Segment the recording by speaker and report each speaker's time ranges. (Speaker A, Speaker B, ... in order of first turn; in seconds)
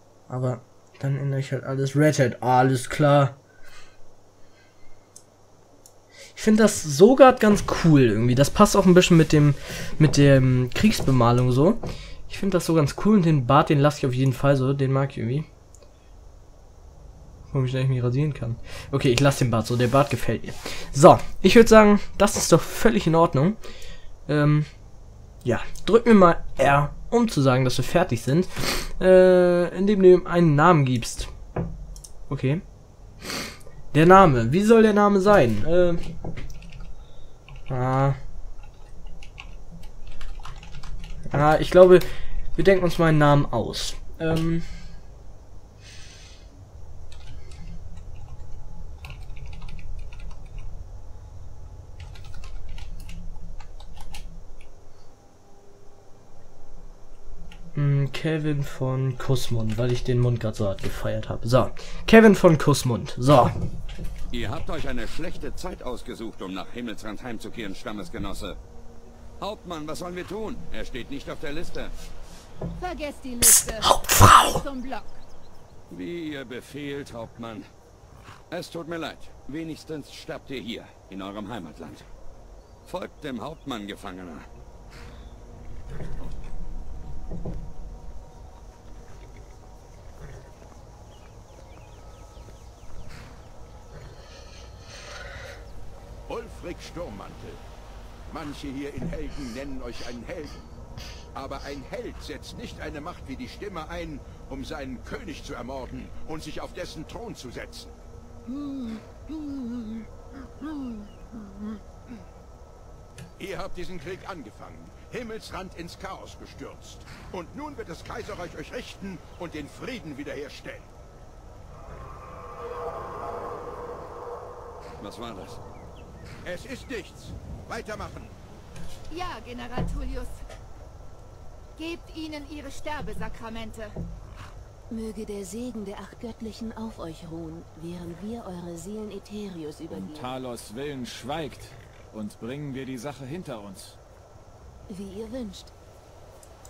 Speaker A: 0.3-3.4, 6.3-15.5, 17.5-23.6, 24.3-24.7, 25.4-31.3, 32.3-32.6, 33.9-36.0, 37.7-38.2, 41.3-44.6, 57.7-63.6, 73.9-74.6
Speaker B: 64.3-68.6, 69.4-71.9, 75.9-77.6, 78.5-82.0, 82.8-84.4, 125.0-125.6
Speaker C: 72.8-75.1, 129.1-130.3, 131.8-133.9
Speaker D: 96.3-97.6, 98.3-100.6, 101.3-107.9, 113.4-120.9, 126.4-128.3
Speaker E: 109.4-109.8, 134.9-140.3, 144.9-145.7
Speaker F: 139.9-143.9